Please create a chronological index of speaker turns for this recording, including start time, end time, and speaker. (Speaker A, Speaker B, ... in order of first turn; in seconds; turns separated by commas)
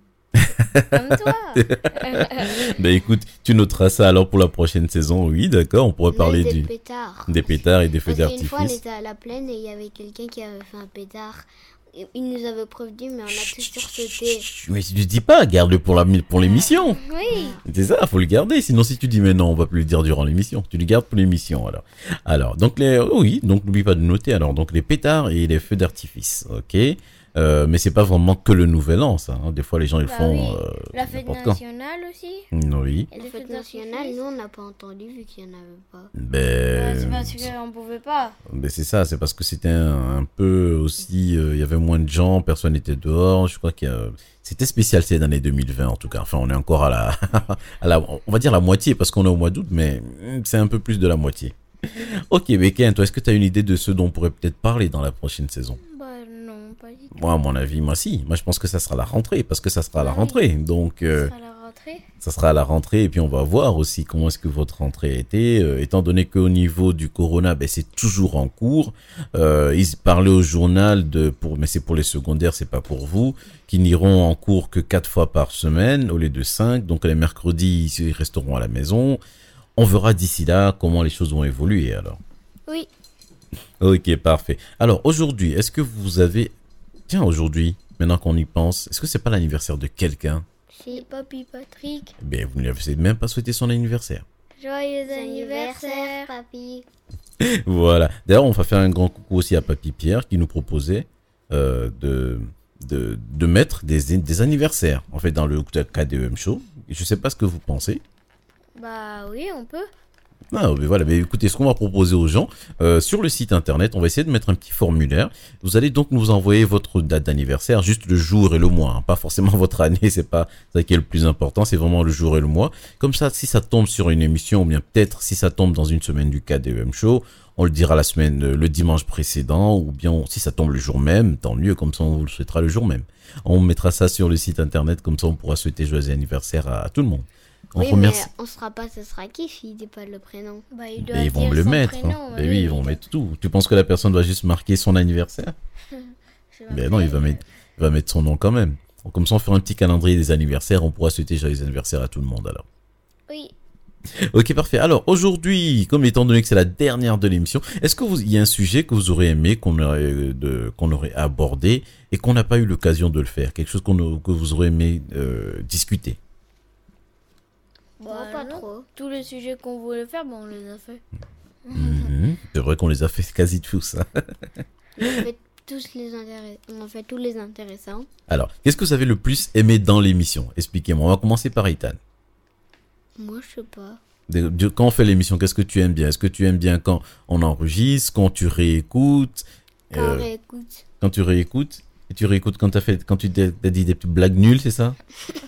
Speaker A: 0.3-6.7, Speaker B: 0.9-2.7, Speaker C: 6.1-7.5, Speaker A: 7.3-8.8, Speaker C: 8.1-14.5, Speaker A: 14.2-17.0, Speaker B: 16.9-17.6, Speaker C: 17.2-17.6, Speaker A: 17.6-31.6, Speaker B: 30.1-32.5, Speaker A: 32.5-33.1, Speaker B: 33.1-34.2, Speaker C: 33.1-36.1, Speaker A: 36.1-37.5, Speaker B: 36.7-38.4, Speaker A: 38.5-55.8, Speaker B: 55.8-57.2, Speaker A: 57.1-61.3, Speaker B: 60.0-60.4, Speaker B: 61.1-62.0, Speaker A: 62.2-79.2, Speaker A: 79.8-82.2, Speaker A: 83.8-86.5, Speaker A: 87.1-90.5, Speaker C: 90.7-91.1, Speaker B: 90.9-92.1, Speaker A: 92.2-94.2, Speaker B: 94.6-96.3, Speaker C: 95.1-96.9, Speaker A: 97.4-108.0, Speaker B: 108.8-109.9, Speaker A: 110.5-138.3, Speaker C: 137.8-140.7, Speaker B: 140.7-143.0, Speaker A: 141.0-145.5, Speaker B: 145.9-147.4, Speaker A: 146.7-152.6, Speaker B: 153.3-153.5, Speaker A: 154.3-166.2, Speaker B: 168.0-171.0, Speaker C: 168.1-168.9, Speaker B: 171.6-172.1, Speaker A: 171.7-174.2, Speaker C: 175.0-178.1, Speaker A: 178.3-182.0, Speaker C: 183.2-184.0, Speaker A: 184.3-190.3, Speaker C: 189.9-190.8, Speaker A: 191.0-195.0